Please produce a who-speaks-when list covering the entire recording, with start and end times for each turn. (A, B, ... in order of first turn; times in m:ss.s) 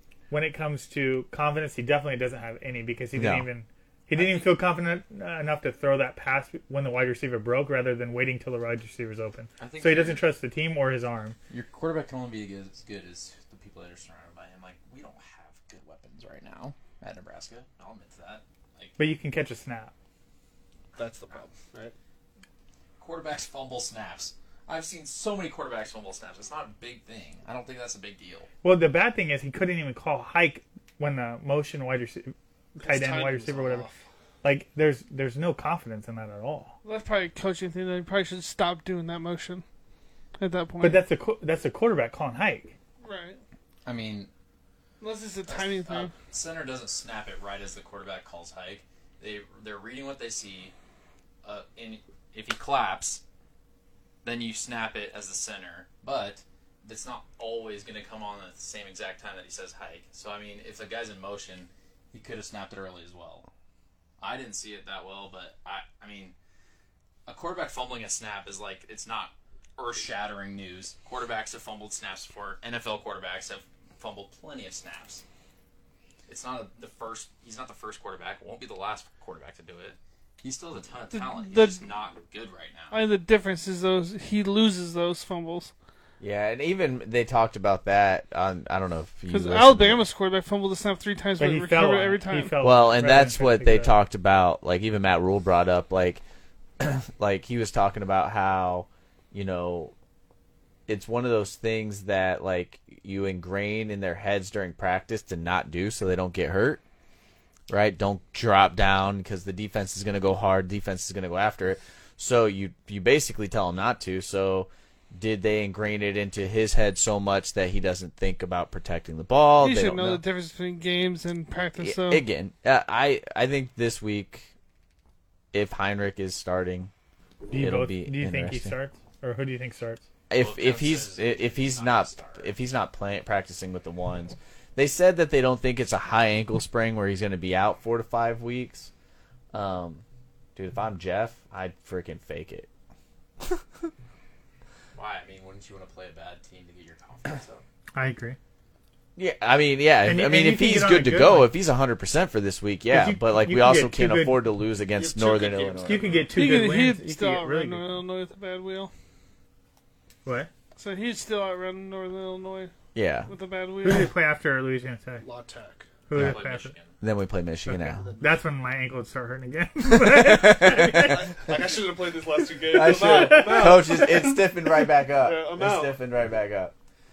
0:00.3-0:11.4 A
0:03.2-0:03.5 B
0:04.1-0:04.5 C
0:09.6-0:10.3 C
0:11.5-0:19.0 C
0:19.0-0:19.9 A
0:21.0-0:21.9 D
0:23.0-0:28.5 C
0:28.6-0:33.8 A
0:32.8-0:34.0 D
0:34.4-0:36.7 A
0:36.8-0:39.6 E
0:40.4-0:41.0 E
0:40.8-0:42.8 A
0:43.0-0:43.4 E
0:43.8-0:44.3 C
0:45.0-0:46.1 E
0:45.4-0:50.7 C
0:51.4-0:53.2 C
0:54.2-1:03.5 C
1:04.2-1:06.3 C
1:07.2-1:15.2 C
1:16.2-1:23.0 C
1:21.1-1:21.8 E
1:22.9-1:25.7 E
1:26.2-1:30.1 B
1:29.3-1:32.6 E
1:31.4-1:33.9 A
1:32.6-1:36.2 B
1:36.8-1:39.9 B
1:40.9-1:46.8 B
1:47.7-2:00.2 B
1:59.6-2:02.2 E
2:01.8-2:04.5 B
2:05.5-2:06.9 B
2:07.5-2:10.0 A
2:07.5-2:08.8 B
2:10.3-2:18.9 B
2:10.3-2:12.6 C
2:19.5-2:20.0 B
2:20.6-2:22.7 B
2:24.9-2:27.6 C
2:27.9-2:28.4 A
2:29.2-2:36.2 B
2:30.0-2:31.6 A
2:32.9-2:34.5 A
2:34.9-2:36.3 D
2:35.8-2:38.0 A
2:36.3-2:38.9 E
2:40.2-2:40.5 A
2:40.8-2:42.7 E
2:42.9-2:43.3 B
2:43.3-2:44.1 E
2:43.8-2:45.2 A
2:45.2-2:45.9 D
2:46.1-2:46.7 A
2:46.1-2:47.0 C
2:47.0-2:48.0 B
2:47.6-2:51.3 A
2:48.0-2:48.4 D
2:49.8-2:51.5 B
2:51.0-2:54.4 D
2:52.7-2:56.7 B
2:52.8-2:54.2 A
2:55.1-2:56.0 D